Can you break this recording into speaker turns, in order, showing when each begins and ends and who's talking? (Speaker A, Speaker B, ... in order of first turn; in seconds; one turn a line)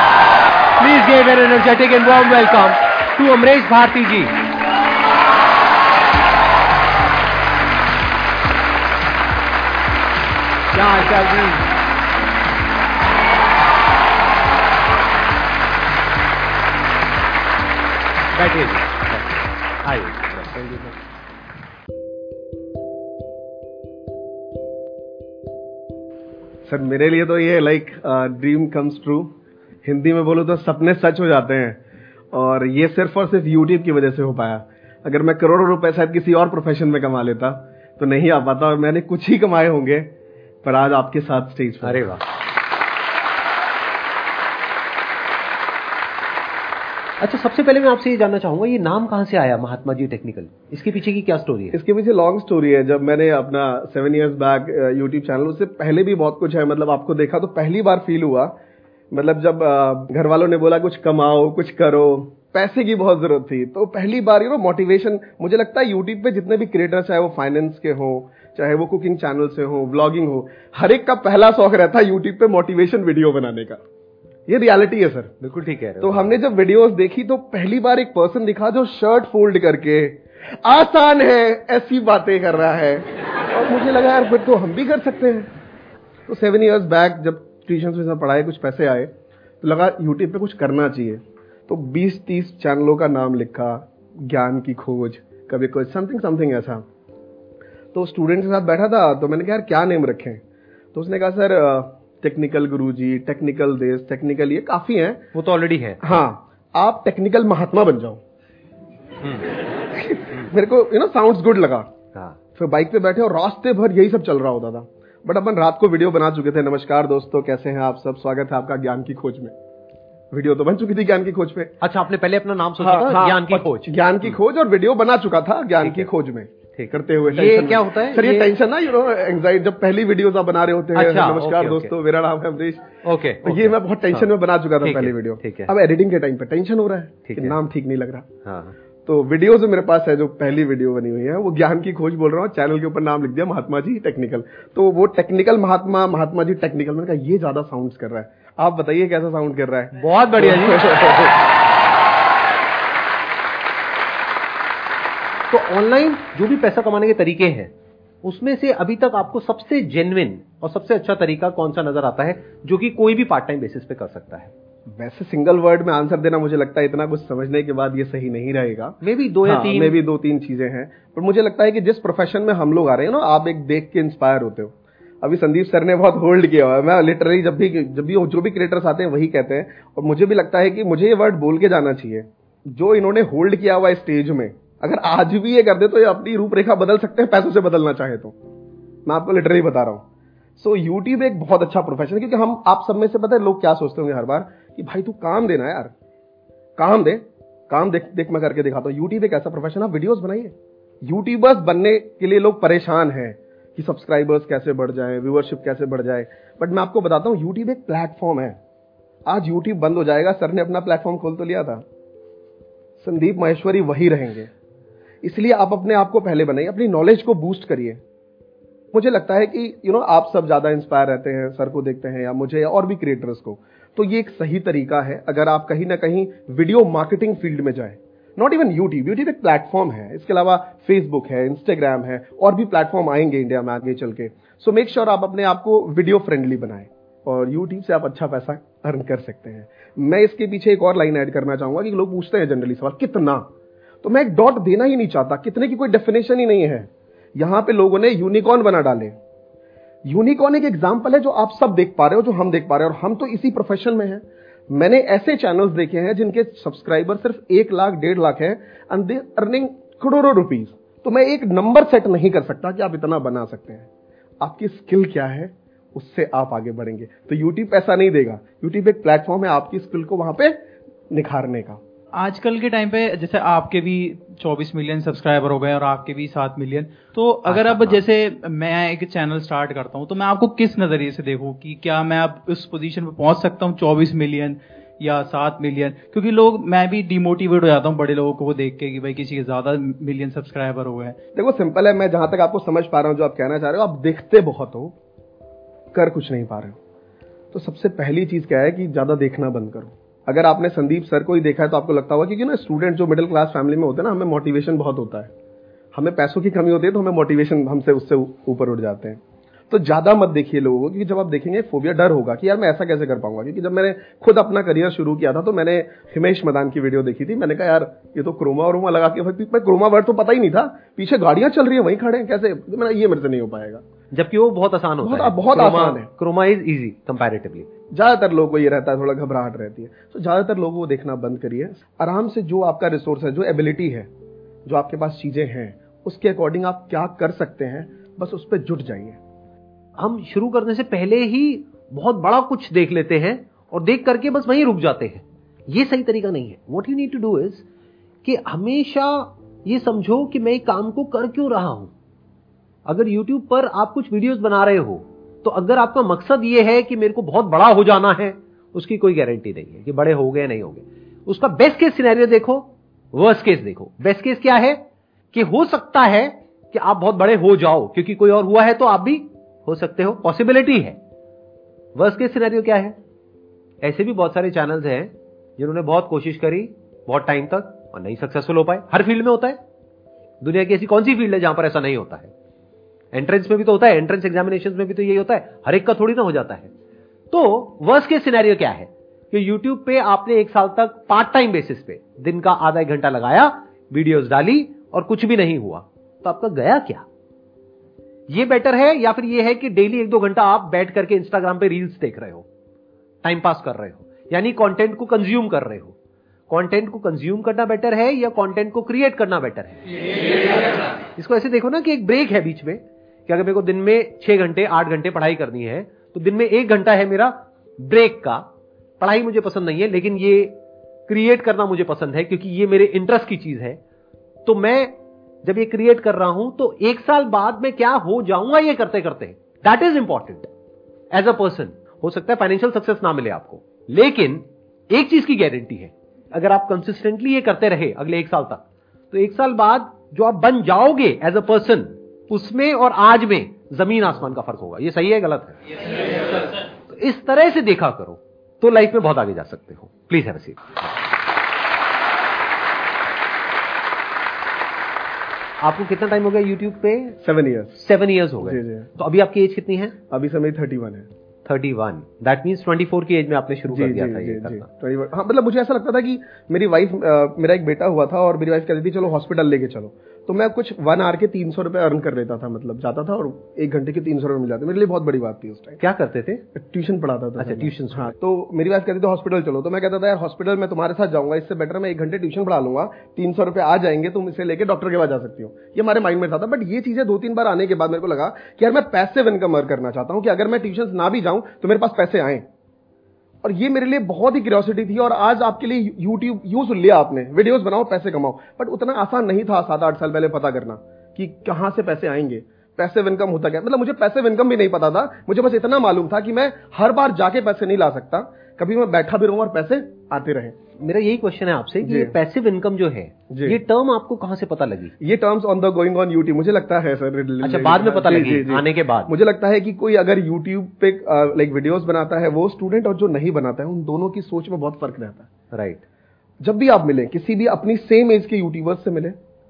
Speaker A: 0.8-4.3
Speaker A: 10.7-11.7
Speaker A: 18.3-20.6
Speaker B: 20.5-20.9
Speaker B: 26.6-29.3
Speaker B: 29.8-31.8
Speaker B: 32.3-40.1
Speaker B: 40.6-42.0
Speaker A: 41.8-42.2
Speaker A: 47.2-51.8
Speaker B: 51.7-58.5
Speaker B: 59.1-73.8
Speaker B: 74.5-75.3
Speaker A: 75.4-76.3
Speaker B: 76.0-85.5
Speaker B: 86.3-96.8
Speaker B: 97.9-100.4
Speaker B: 100.9-105.2
Speaker A: 105.3-106.0
Speaker B: 106.0-108.2
Speaker A: 109.2-109.5
Speaker B: 109.9-111.9
Speaker B: 112.5-119.5
Speaker B: 120.3-121.7
Speaker A: 121.8-124.4
Speaker B: 122.8-132.8
Speaker A: 125.8-126.1
Speaker A: 126.7-128.5
Speaker A: 130.9-131.9
Speaker A: 133.0-134.3
Speaker B: 133.4-138.2
Speaker A: 134.8-135.7
Speaker A: 137.2-137.6
Speaker A: 138.4-138.8
Speaker B: 139.1-151.3
Speaker A: 149.9-151.3
Speaker A: 155.5-157.7
Speaker A: 158.2-164.5
Speaker B: 165.0-188.3
Speaker A: 169.0-170.0
Speaker B: 189.1-190.0
Speaker B: 190.6-195.9
Speaker B: 196.8-208.6
Speaker B: 209.2-211.8
Speaker B: 213.0-214.5
Speaker B: 215.2-218.0
Speaker B: 218.9-243.5
Speaker B: 244.0-249.2
Speaker B: 250.0-263.9
Speaker B: 264.4-270.6
Speaker B: 271.1-271.8
Speaker C: 272.2-291.2
Speaker A: 277.5-278.0
Speaker B: 291.3-294.9
Speaker B: 295.9-296.8
Speaker B: 297.5-305.3
Speaker B: 305.9-323.8
Speaker A: 324.1-327.7
Speaker B: 325.0-326.1
Speaker B: 327.9-334.1
Speaker B: 334.6-339.2
Speaker A: 340.0-347.6
Speaker A: 348.2-351.9
Speaker A: 352.9-371.0
Speaker A: 371.9-373.0
Speaker A: 373.8-379.6
Speaker A: 380.4-382.3
Speaker A: 383.1-386.7
Speaker A: 387.3-397.1
Speaker A: 398.3-402.5
Speaker A: 403.2-405.9
Speaker A: 406.5-409.9
Speaker A: 411.1-418.5
Speaker A: 419.0-423.8
Speaker A: 424.4-430.5
Speaker A: 431.1-445.6
Speaker A: 446.9-450.8
Speaker A: 455.6-457.2
Speaker B: 457.2-457.8
Speaker A: 457.7-459.9
Speaker B: 458.4-458.9
Speaker B: 460.1-461.1
Speaker A: 461.4-464.7
Speaker B: 463.7-475.8
Speaker A: 475.8-476.4
Speaker B: 476.5-492.4
Speaker A: 477.4-478.1
Speaker B: 493.4-510.5
Speaker A: 510.8-514.9
Speaker B: 511.8-512.1
Speaker B: 513.3-513.6
Speaker B: 515.0-525.3
Speaker A: 517.4-519.1
Speaker A: 525.5-525.8
Speaker B: 526.4-529.1